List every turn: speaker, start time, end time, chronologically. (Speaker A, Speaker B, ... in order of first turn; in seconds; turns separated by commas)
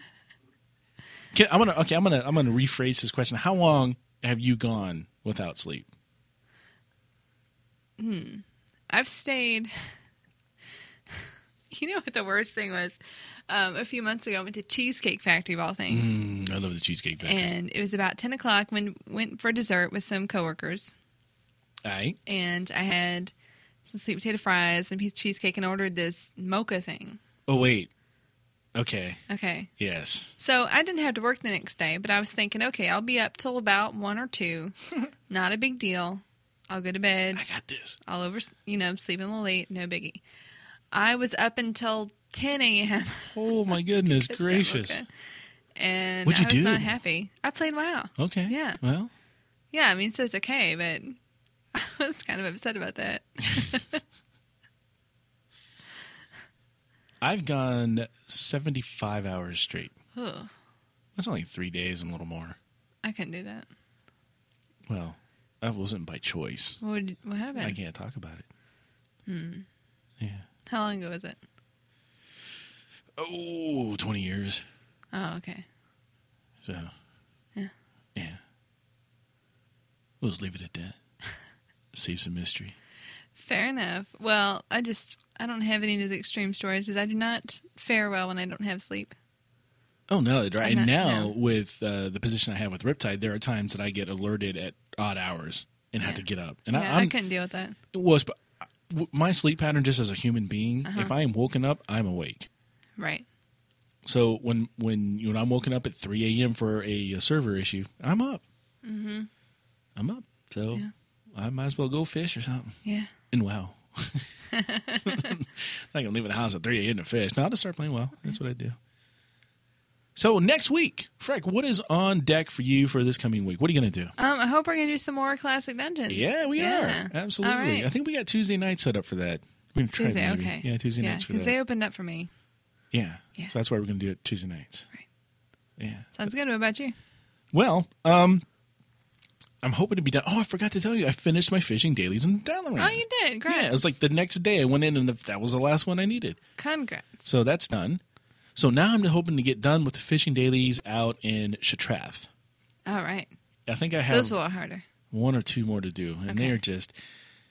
Speaker A: 1.3-5.9, Speaker B: 8.0-9.7, Speaker B: 11.1-16.3, Speaker A: 15.9-17.5, Speaker B: 17.2-20.9, Speaker A: 21.8-22.2, Speaker B: 22.2-23.3, Speaker B: 23.9-27.2, Speaker A: 27.5-27.9, Speaker A: 28.7-29.2, Speaker B: 29.3-29.7, Speaker A: 29.8-30.3, Speaker B: 30.4-34.7, Speaker B: 35.3-40.2, Speaker A: 37.3-38.0, Speaker B: 40.9-45.1, Speaker A: 43.3-45.0, Speaker B: 45.7-48.8, Speaker A: 46.2-46.9, Speaker A: 48.2-49.1, Speaker B: 49.7-51.2, Speaker B: 51.7-54.0, Speaker A: 57.2-59.9, Speaker B: 60.1-60.5, Speaker A: 61.1-62.6, Speaker B: 63.0-63.7, Speaker A: 64.9-66.8, Speaker B: 66.8-67.8, Speaker A: 67.6-68.5, Speaker B: 69.2-69.7, Speaker A: 70.2-70.5, Speaker B: 70.7-71.4, Speaker A: 73.2-74.6, Speaker B: 75.1-75.6, Speaker A: 76.6-76.9, Speaker A: 78.2-78.4, Speaker A: 80.2-81.0, Speaker A: 81.9-82.7, Speaker B: 83.3-89.1, Speaker A: 90.1-97.1, Speaker B: 90.6-91.3, Speaker B: 96.0-97.8, Speaker A: 97.9-102.5, Speaker B: 100.8-101.1, Speaker B: 103.0-103.2, Speaker A: 104.0-108.4, Speaker B: 108.8-109.3, Speaker A: 110.0-112.8, Speaker B: 112.8-113.1, Speaker A: 113.3-114.3, Speaker B: 114.5-115.3, Speaker A: 115.0-118.8, Speaker A: 120.2-124.1, Speaker B: 124.2-127.9, Speaker A: 126.1-131.5, Speaker B: 130.0-132.3, Speaker A: 132.9-134.9, Speaker A: 135.8-136.3, Speaker B: 136.2-136.9, Speaker A: 137.5-138.4, Speaker A: 139.6-146.4, Speaker B: 142.8-143.9, Speaker B: 146.6-147.2, Speaker A: 147.2-148.0, Speaker A: 148.6-152.3, Speaker B: 152.8-153.3, Speaker A: 153.7-154.4, Speaker B: 154.1-154.8, Speaker A: 155.1-156.9, Speaker B: 156.3-156.6